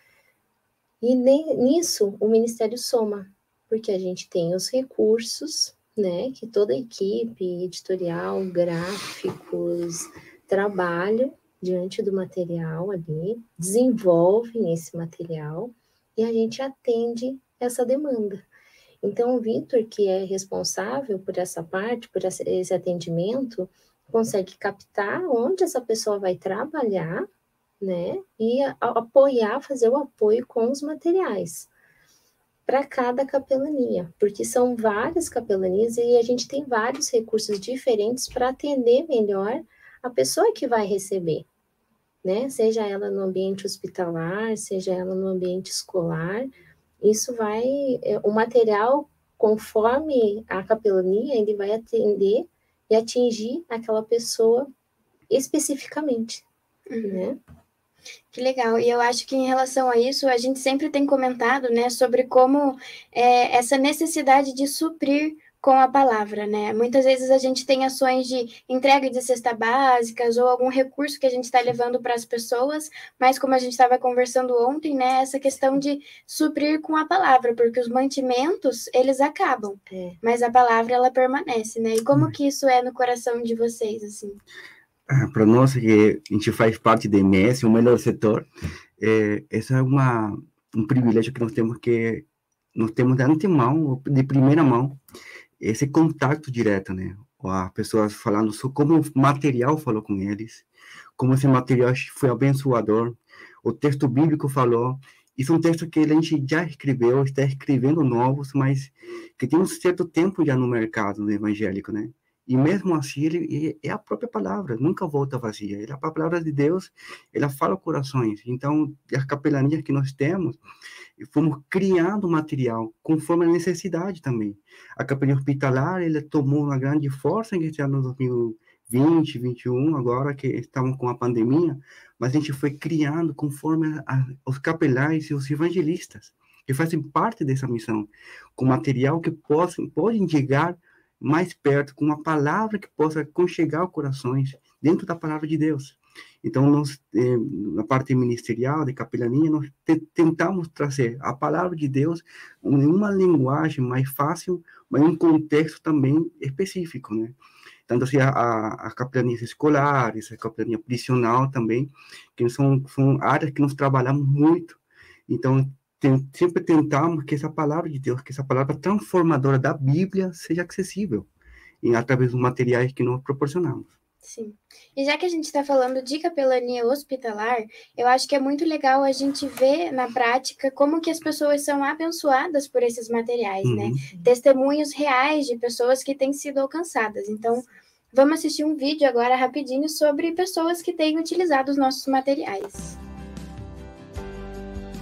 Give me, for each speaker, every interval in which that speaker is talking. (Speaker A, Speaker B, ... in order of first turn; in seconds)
Speaker A: 1.0-18.4, 19.0-27.2, 27.8-31.7, 32.7-41.5, 42.2-46.5, 47.0-54.7, 55.3-56.4, 57.0-57.4, 79.9-80.2
Speaker B: 56.9-57.2, 58.3-84.4, 174.2-192.9
Speaker C: 85.1-95.0, 95.6-100.7, 101.2-120.6, 121.2-171.3, 171.8-173.9, 183.6-184.0